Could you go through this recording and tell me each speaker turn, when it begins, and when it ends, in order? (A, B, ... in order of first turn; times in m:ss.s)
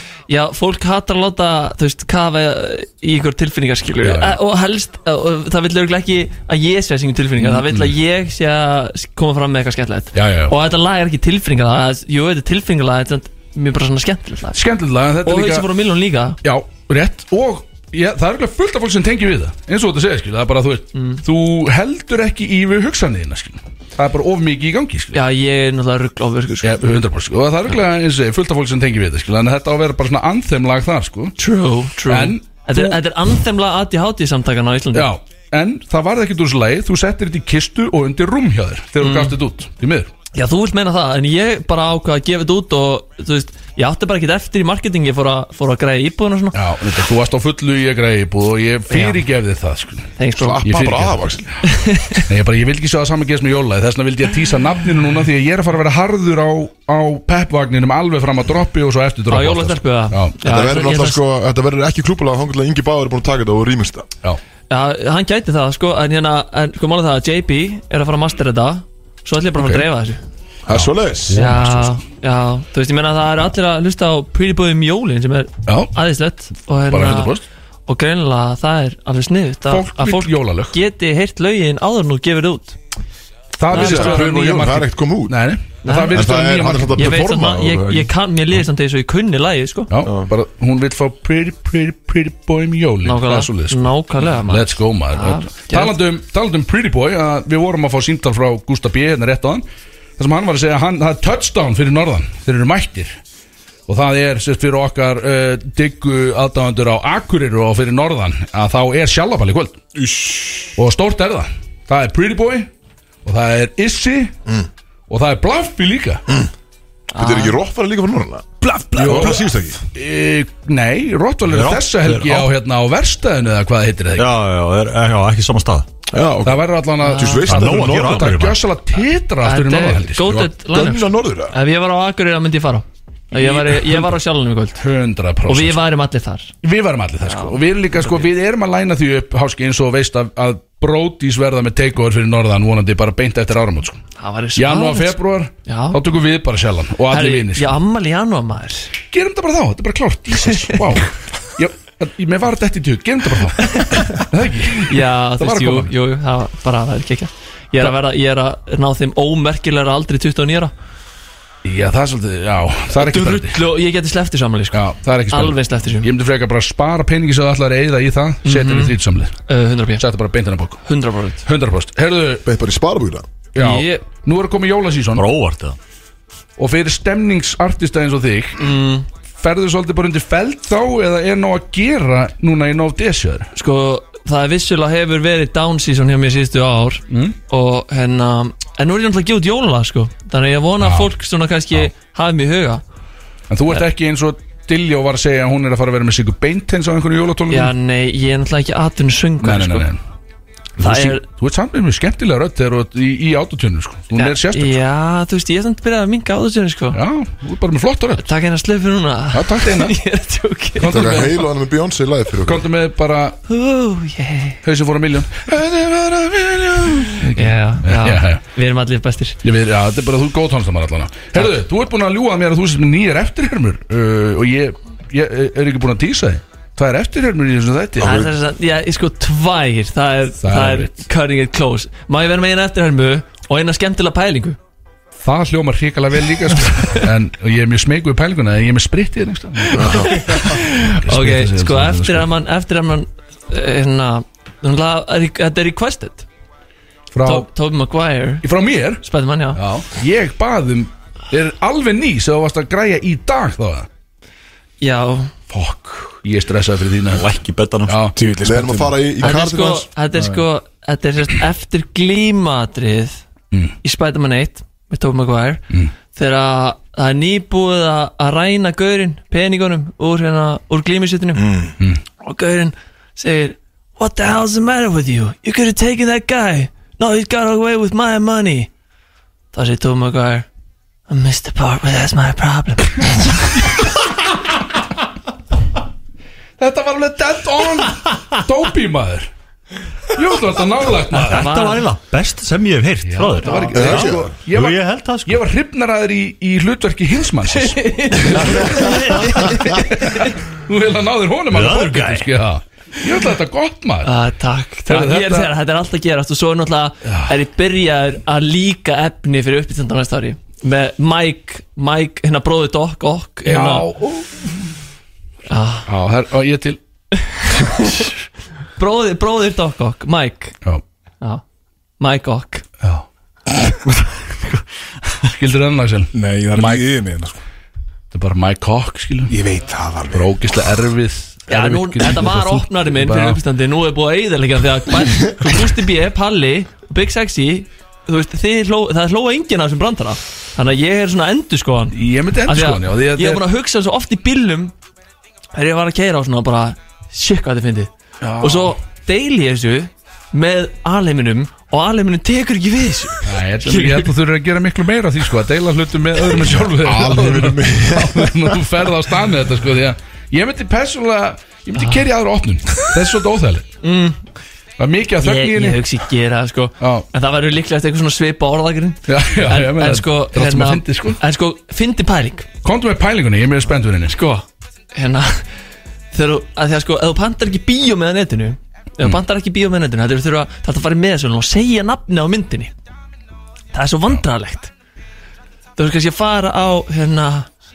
0:00.3-0:14.6 A
0:04.0-0:04.4 B
0:07.4-0:08.0 B
0:10.1-0:10.6 B
0:14.5-0:15.7 B
0:15.2-0:16.4 A
0:16.4-0:25.2 B
0:20.9-0:21.2 A
0:25.1-0:26.9 A
0:26.6-0:31.4 B
0:31.4-0:35.1 A
0:32.1-0:33.0 B
0:34.9-0:40.1 B
0:39.0-0:39.4 A
0:40.3-0:46.6 A
0:46.5-0:50.1 B
0:48.9-0:49.2 A
0:50.2-0:50.6 A
0:50.4-0:51.5 C
0:50.6-0:51.3 B
0:51.6-0:52.3 A
0:52.2-1:00.4 B
0:59.3-1:01.2 A
1:00.4-1:04.1 C
1:04.7-1:10.2 A
1:09.6-1:09.9 B
1:10.7-1:11.4 C
1:10.7-1:12.0 B
1:11.3-1:22.8 A
1:15.7-1:15.9 B
1:16.9-1:17.4 B
1:19.7-1:20.8 B
1:23.6-1:27.2 B
1:23.7-1:24.2 A
1:23.7-1:25.4 C
1:25.8-1:26.4 A
1:26.1-1:28.1 C
1:27.0-1:29.9 A
1:29.9-1:39.6 B
1:33.0-1:36.0 A
1:40.2-1:43.2 B
1:43.9-1:49.8 B
1:50.0-1:50.8 C
1:50.8-1:52.7 B
1:53.2-1:54.3 B
1:55.1-1:56.2 B
1:57.1-1:57.6 A
1:57.1-1:59.8 C
1:58.6-2:04.3 B
2:01.5-2:02.5 D
2:04.2-2:05.9 D
2:06.1-2:08.4 C
2:06.4-2:10.4 B
2:07.0-2:07.4 A
2:07.4-2:08.6 D
2:09.4-2:14.8 A
2:10.2-2:11.6 C
2:13.3-2:14.1 B
2:14.8-2:15.8 B
2:15.5-2:16.5 A
2:16.6-2:24.0 B
2:17.2-2:18.2 A
2:24.2-2:26.0 A
2:24.6-2:27.8 B
2:27.1-2:28.9 A
2:29.1-2:35.9 B
2:30.4-2:31.0 A
2:33.6-2:34.2 A
2:34.9-2:40.7 A
2:41.6-2:43.6 B
2:42.9-2:44.8 A
2:44.7-2:49.3 B
2:45.3-2:46.1 A
2:48.4-2:49.0 A
2:49.5-2:50.0 A
2:50.0-2:50.8 B
2:50.8-2:51.4 A
2:51.4-2:52.4 B
2:52.4-2:53.3 C
2:53.5-2:55.2 B
2:53.6-2:54.1 A
2:55.2-2:55.8 D
2:56.6-2:58.6 B
2:58.6-2:59.1 A
2:59.4-3:03.5 B
3:03.5-3:12.8 A
3:07.1-3:07.4 B
3:10.8-3:11.1 B
3:13.5-3:17.7 B
3:17.5-3:19.9 A
3:19.4-3:20.0 B
3:20.8-3:21.2 A
3:20.8-3:24.8 B
3:24.2-3:27.0 A
3:26.9-3:28.3 B
3:28.2-3:31.0 A
3:29.3-3:30.0 B
3:30.8-3:31.4 B
3:30.9-3:32.7 C
3:32.4-3:33.4 B
3:33.5-3:34.6 A
3:34.6-3:38.4 B
3:37.1-3:39.4 A
3:39.4-3:48.2 B
3:48.0-3:48.3 C
3:48.0-3:54.6 A
3:50.4-3:51.1 B
3:55.2-4:00.5 B
3:59.8-4:00.1 C
3:59.9-4:06.3 A
4:01.0-4:02.3 B
4:07.1-4:07.5 B
4:07.2-4:08.4 A
4:08.4-4:09.0 B
4:09.0-4:09.6 A
4:09.6-4:13.9 B
4:14.8-4:15.4 A
4:15.5-4:17.2 B
4:17.1-4:18.1 D
4:17.9-4:18.1 B
4:18.2-4:19.2 E
4:18.4-4:19.9 C
4:19.2-4:23.2 A
4:23.8-4:31.6 A
4:31.4-4:31.7 C
4:32.2-4:38.7 A
4:39.5-4:40.5 A
4:41.1-4:43.2 A
4:46.6-4:49.3 B
4:50.1-4:51.5 B
4:51.1-4:55.4 D
4:51.2-4:51.9 A
4:53.0-5:04.1 B
4:53.7-4:54.4 C
4:57.5-5:00.3 A
5:01.5-5:02.3 D
5:04.0-5:13.9 A
5:04.9-5:05.5 B
5:07.0-5:07.4 B
5:13.4-5:14.3 B
5:15.5-5:15.9 A
5:15.9-5:16.8 B
5:17.2-5:18.1 A
5:18.8-5:20.6 A
5:22.0-5:22.6 A
5:23.8-5:24.6 A
5:25.2-5:26.9 B
5:26.2-5:27.4 E
5:28.1-5:29.4 B
5:29.3-5:30.3 E
5:30.1-5:33.4 B
5:31.5-5:44.7 A
5:41.9-5:43.4 B
5:45.5-5:54.1 A
5:48.2-5:48.8 B
5:53.2-6:03.7 B
5:56.8-5:58.6 C
6:01.8-6:02.1 A
6:03.8-6:04.2 A
6:04.8-6:05.8 B
6:05.2-6:12.5 A
6:06.8-6:07.1 B
6:09.1-6:11.2 B
6:12.6-6:14.2 B
6:14.1-6:15.4 A
6:16.1-6:22.7 A
6:23.7-6:24.7 A
6:25.8-6:27.5 A